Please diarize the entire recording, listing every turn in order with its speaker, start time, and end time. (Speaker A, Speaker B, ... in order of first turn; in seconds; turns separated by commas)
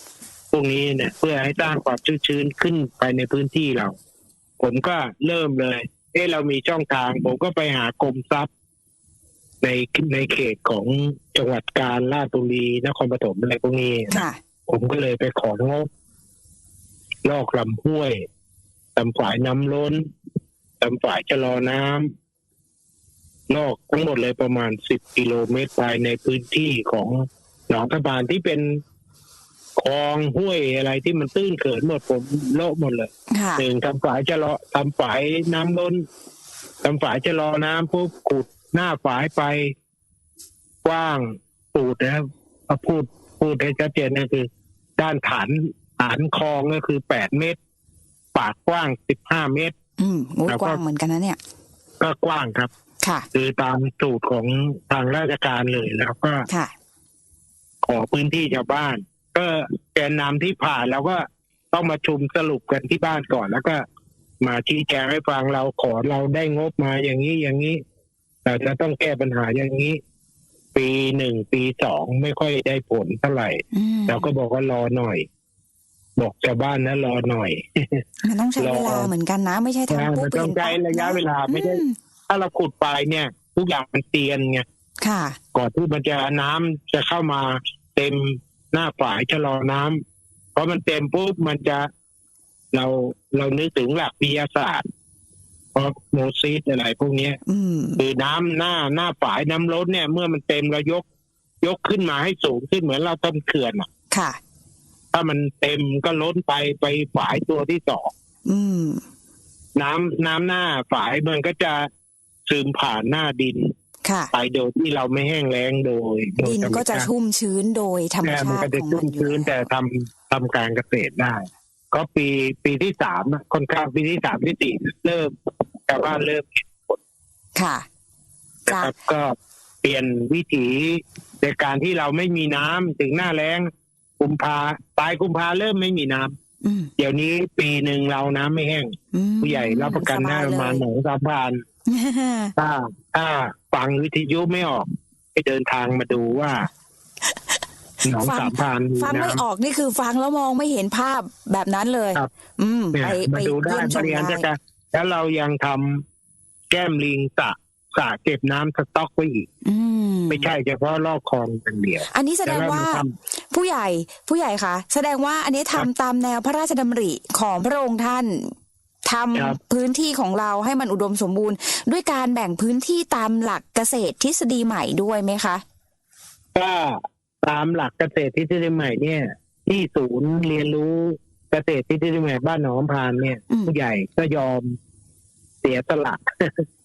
Speaker A: 0.5-4.0, Speaker A: 4.6-8.5, Speaker A: 9.6-15.9, Speaker B: 14.1-14.4, Speaker A: 17.2-18.2, Speaker A: 18.9-20.0, Speaker A: 20.8-22.1, Speaker A: 23.5-28.8, Speaker A: 29.8-36.0, Speaker B: 33.3-33.6, Speaker A: 36.8-39.7, Speaker A: 40.8-47.6, Speaker A: 48.3-49.7, Speaker B: 50.0-51.4, Speaker A: 50.5-50.8, Speaker A: 52.0-52.7, Speaker A: 53.3-56.5, Speaker A: 57.8-63.8, Speaker A: 64.4-67.8, Speaker A: 68.4-70.0, Speaker A: 70.7-75.2, Speaker B: 73.7-74.3, Speaker A: 76.2-78.0, Speaker B: 78.2-81.9, Speaker A: 78.6-79.1, Speaker A: 79.9-84.6, Speaker B: 85.0-85.4, Speaker A: 85.5-90.0, Speaker A: 90.5-91.9, Speaker A: 92.7-94.8, Speaker A: 95.7-97.4, Speaker B: 97.5-98.0, Speaker A: 98.0-101.0, Speaker A: 101.6-103.9, Speaker B: 104.1-104.4, Speaker A: 105.1-108.1, Speaker B: 108.5-109.0, Speaker A: 109.8-111.9, Speaker A: 112.5-113.7, Speaker B: 114.0-114.3, Speaker A: 114.3-117.1, Speaker B: 116.4-119.7, Speaker A: 118.2-125.3, Speaker A: 125.9-127.0, Speaker B: 127.5-127.8, Speaker B: 128.7-128.9, Speaker A: 128.7-136.3, Speaker B: 136.6-136.9, Speaker A: 137.0-141.6, Speaker B: 139.1-140.8, Speaker B: 141.9-142.5, Speaker A: 142.6-146.7, Speaker A: 148.0-149.4, Speaker B: 148.2-154.5, Speaker A: 152.9-156.0, Speaker A: 156.7-159.5, Speaker B: 159.6-160.5, Speaker A: 160.3-163.1, Speaker B: 162.1-168.5, Speaker B: 169.1-175.6, Speaker A: 176.5-184.8, Speaker A: 185.6-186.6